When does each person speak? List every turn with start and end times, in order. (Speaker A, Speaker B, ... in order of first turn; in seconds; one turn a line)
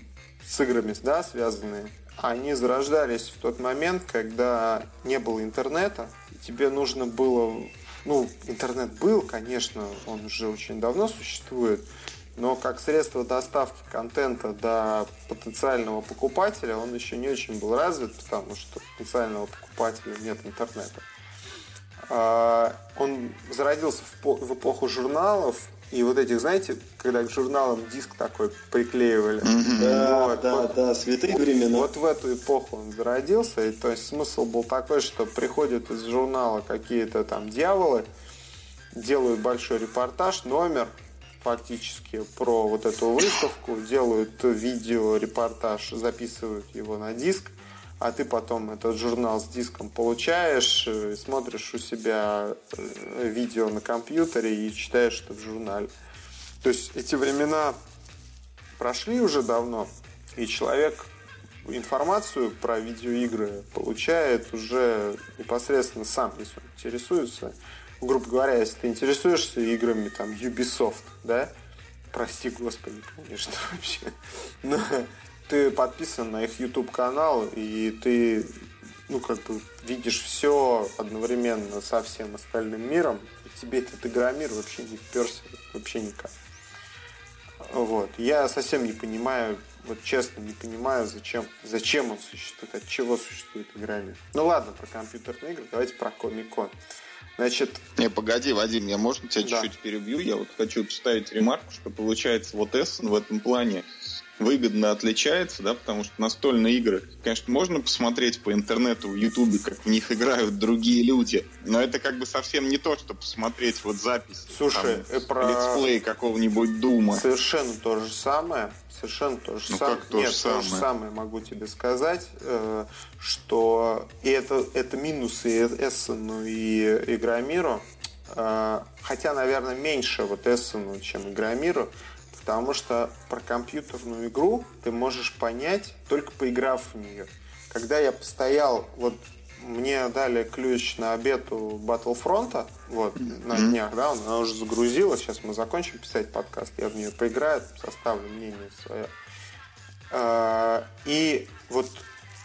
Speaker A: 0.4-11.8
Speaker A: 12.3-21.0
Speaker A: 22.1-30.7
Speaker B: 29.4-30.1
Speaker C: 29.8-31.9
Speaker A: 31.7-38.1
Speaker A: 38.9-55.9
Speaker A: 56.6-57.8
Speaker A: 58.8-61.1
Speaker A: 61.6-71.5
Speaker A: 72.1-86.3
Speaker A: 87.6-96.7
Speaker A: 97.4-97.8
Speaker B: 98.0-103.8
Speaker A: 99.4-99.7
Speaker B: 104.4-117.2
Speaker A: 114.5-115.9
Speaker A: 117.1-149.1
Speaker B: 119.7-120.9
Speaker B: 143.5-143.7
Speaker A: 150.1-152.1